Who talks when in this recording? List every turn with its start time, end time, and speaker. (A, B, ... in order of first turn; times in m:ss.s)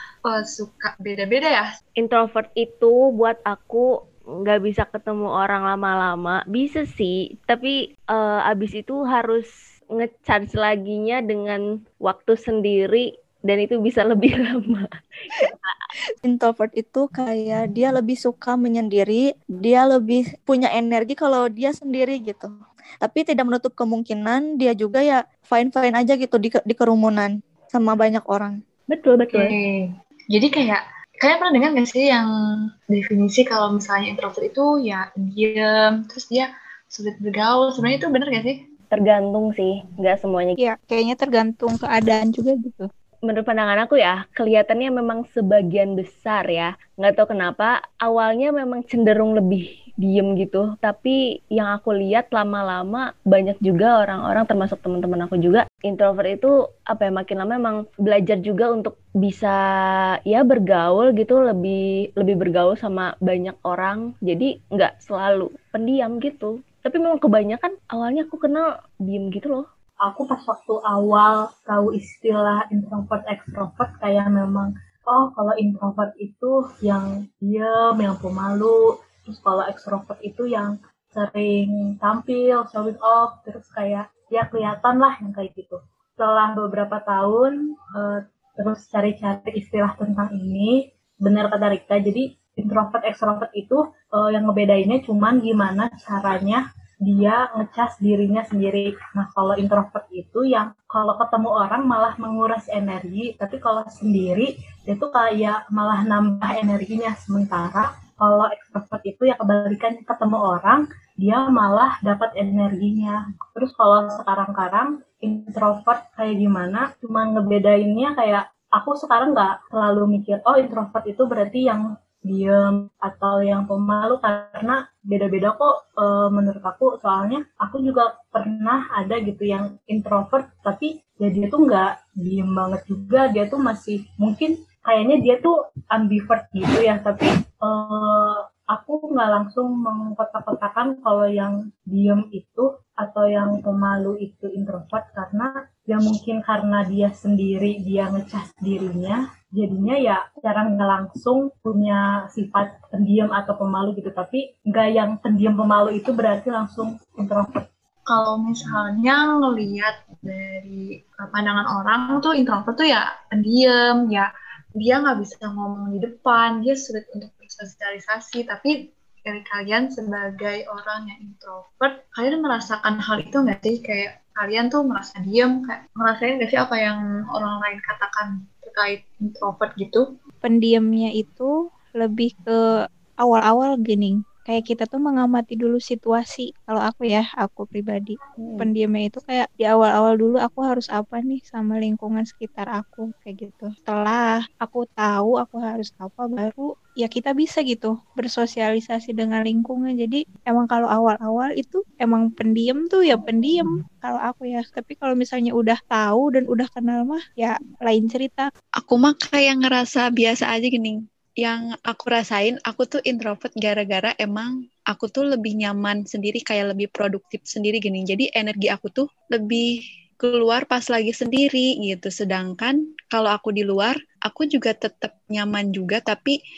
0:00.3-0:01.7 A
0:02.0-0:03.9 B
0:04.4-0:15.8 B
0:16.2-0:22.5 C
0:23.0-0:28.5 C
0:28.9-0:29.5 B
0:29.3-0:32.3 A
0:32.9-0:38.6 A
0:38.9-0:40.5 B
0:40.6-0:42.9 D
0:43.3-0:59.6 B
1:00.3-1:09.6 B
1:10.0-2:37.6 E
2:38.1-2:48.7 A
2:49.2-3:00.0 A
3:00.4-3:02.6 D
3:03.2-3:28.5 D
3:28.8-3:39.6 F
3:40.2-3:46.4 F